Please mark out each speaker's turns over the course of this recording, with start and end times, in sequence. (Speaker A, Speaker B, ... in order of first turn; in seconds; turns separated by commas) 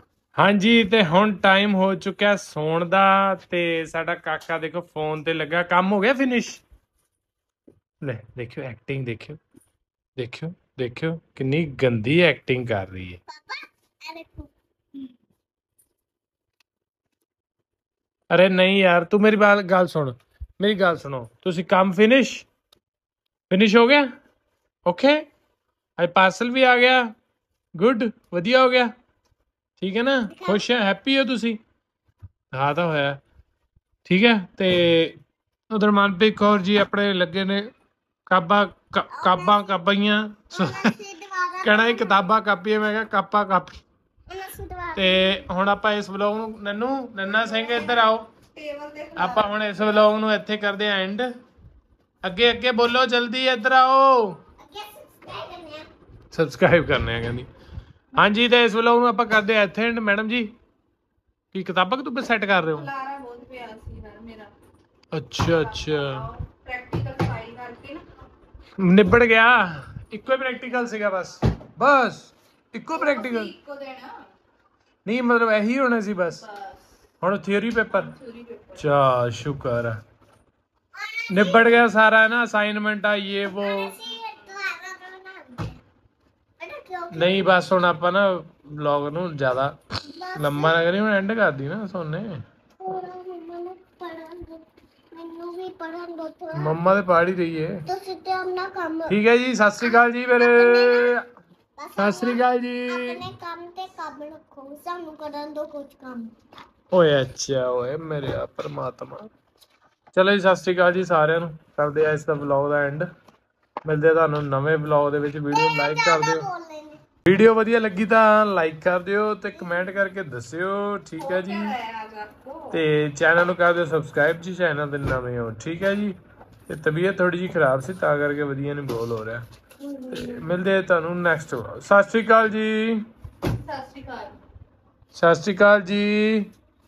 Speaker A: 0.4-6.6, Speaker A: 8.0-9.4, Speaker A: 10.2-13.2, Speaker B: 13.3-14.5, Speaker A: 18.3-22.5, Speaker A: 23.5-24.1, Speaker A: 24.9-25.2, Speaker A: 26.0-27.1, Speaker A: 27.8-28.9, Speaker A: 29.8-31.6, Speaker B: 30.3-30.7, Speaker A: 32.5-33.2, Speaker A: 34.1-35.2, Speaker A: 35.7-37.7, Speaker A: 38.3-40.9, Speaker B: 39.1-39.8, Speaker B: 40.5-42.3, Speaker A: 41.6-43.7, Speaker B: 44.3-45.5, Speaker A: 45.0-48.3, Speaker C: 47.3-49.9, Speaker A: 49.2-51.3, Speaker A: 52.2-54.4, Speaker B: 54.6-55.9, Speaker A: 56.3-57.5, Speaker A: 58.2-60.5, Speaker A: 61.5-62.9, Speaker C: 62.7-64.5, Speaker A: 65.1-66.2, Speaker C: 65.4-68.0, Speaker A: 68.8-73.5, Speaker C: 72.9-74.2, Speaker A: 75.0-76.5, Speaker C: 76.4-76.8, Speaker A: 77.2-78.1, Speaker C: 77.9-78.8, Speaker A: 78.8-80.0, Speaker B: 81.0-81.8, Speaker A: 81.3-84.0, Speaker B: 83.5-85.8, Speaker B: 86.6-87.6, Speaker A: 87.1-89.8, Speaker B: 90.1-90.8, Speaker A: 90.4-92.4, Speaker B: 92.8-96.8, Speaker A: 96.6-97.8, Speaker B: 97.9-99.1, Speaker A: 99.1-101.2, Speaker B: 99.8-101.1, Speaker B: 101.8-106.3, Speaker A: 102.0-103.2, Speaker A: 106.9-109.3, Speaker A: 110.1-113.1, Speaker A: 113.8-116.5, Speaker B: 115.5-117.0, Speaker A: 117.2-121.7, Speaker B: 119.5-119.9, Speaker C: 121.2-122.8, Speaker A: 122.7-126.2, Speaker A: 126.7-129.4, Speaker B: 130.0-130.4, Speaker A: 130.1-133.0, Speaker C: 133.6-134.4, Speaker A: 135.1-136.5